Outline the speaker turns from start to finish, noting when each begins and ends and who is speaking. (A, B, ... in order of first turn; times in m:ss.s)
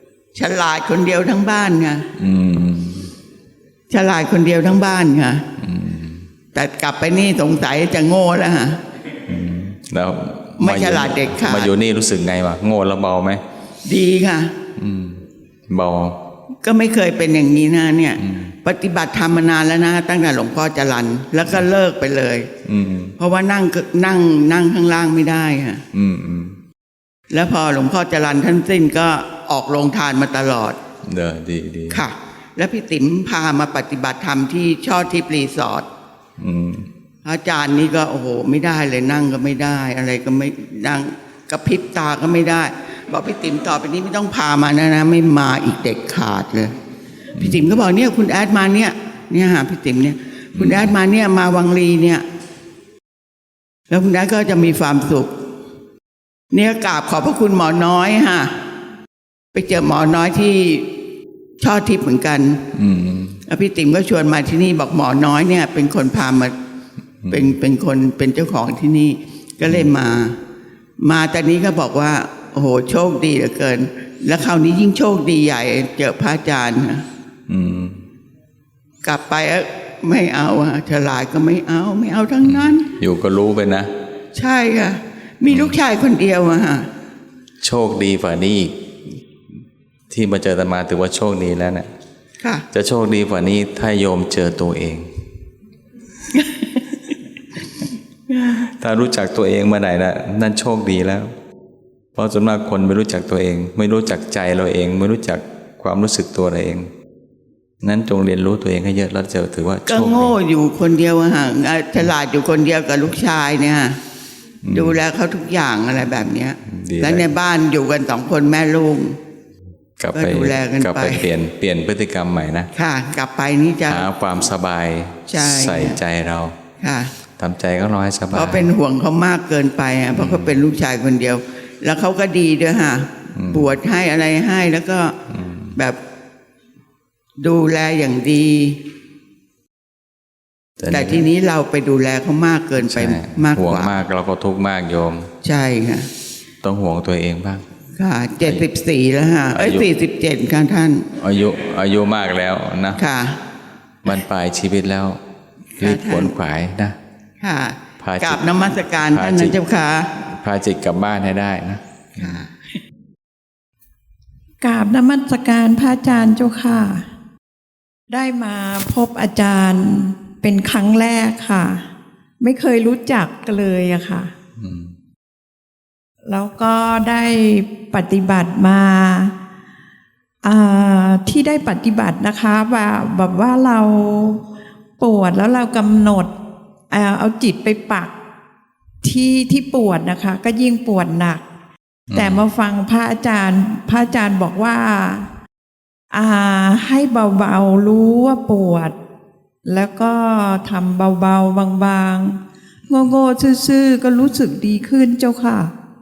0:00.3-0:02.1 A
0:02.2-0:03.1 B
0:03.9-0:05.4 A
0:05.6-0:06.2 B
0:06.5-0:08.8 A
0:09.3-0:13.4 B
0:10.6-0:11.7 A
0:13.8-0:14.5 A
0:14.8-0:16.3 B
0:16.6-0:22.5 A
0:18.2-0:18.6 B
0:22.6-0:23.2 B
0:23.2-0:25.8 A
0:25.9-0:26.6 B
0:27.3-0:30.8 A
0:31.0-0:32.0 B
0:31.9-0:35.9 A
0:36.4-0:36.9 B
0:37.2-0:46.7 A
0:47.4-0:47.6 B
0:47.4-0:52.2 A
0:50.5-0:50.9 B
0:53.9-0:55.3 A
0:56.5-0:58.5 A
0:59.5-1:00.9 A
1:01.6-1:02.6 A
1:02.7-1:03.4 B
1:03.5-1:06.6 A
1:07.2-1:07.5 B
1:07.3-1:10.4 A
1:09.6-1:09.9 B
1:11.0-1:17.0 A
1:17.5-1:18.0 B
1:19.0-1:22.9 A
1:22.4-1:23.9 B
1:24.3-1:26.9 A
1:25.5-1:25.8 B
1:27.6-1:28.8 B
1:30.1-1:31.9 B
1:32.7-1:35.1 B
1:38.4-1:41.3 B
1:42.2-1:46.9 B
1:47.8-1:50.4 B
1:49.9-1:54.0 A
1:54.6-1:55.0 B
1:54.7-1:59.2 A
1:56.6-1:57.3 B
2:00.0-2:02.7 B
2:00.1-2:01.3 A
2:02.7-2:04.1 A
2:03.9-2:06.6 B
2:05.3-2:06.0 A
2:06.8-2:07.1 A
2:07.4-2:08.7 B
2:08.3-2:15.1 A
2:10.1-2:10.6 B
2:13.3-2:13.7 B
2:15.3-2:15.8 B
2:17.4-2:18.8 A
2:20.8-2:21.3 B
2:20.9-2:24.0 A
2:22.8-2:25.3 B
2:25.4-2:26.1 A
2:26.6-2:27.6 B
2:28.0-2:31.1 A
2:29.5-2:29.9 B
2:31.1-2:33.0 B
2:33.0-2:33.4 A
2:34.0-2:35.2 B
2:35.8-2:36.3 A
2:35.8-2:37.0 B
2:37.4-2:40.1 A
2:38.0-2:38.4 B
2:39.0-2:39.6 B
2:40.3-2:42.4 B
2:42.2-2:42.5 A
2:44.6-2:47.0 C
2:48.1-2:51.8 C
2:52.4-2:54.3 C
2:54.6-2:54.9 B
2:56.2-2:59.3 C
3:00.4-3:04.4 C
3:05.0-3:06.3 C
3:06.9-3:08.1 C
3:09.0-3:11.4 C
3:12.1-3:12.4 B
3:12.1-3:15.3 C
3:16.1-3:19.0 C
3:19.6-3:25.7 C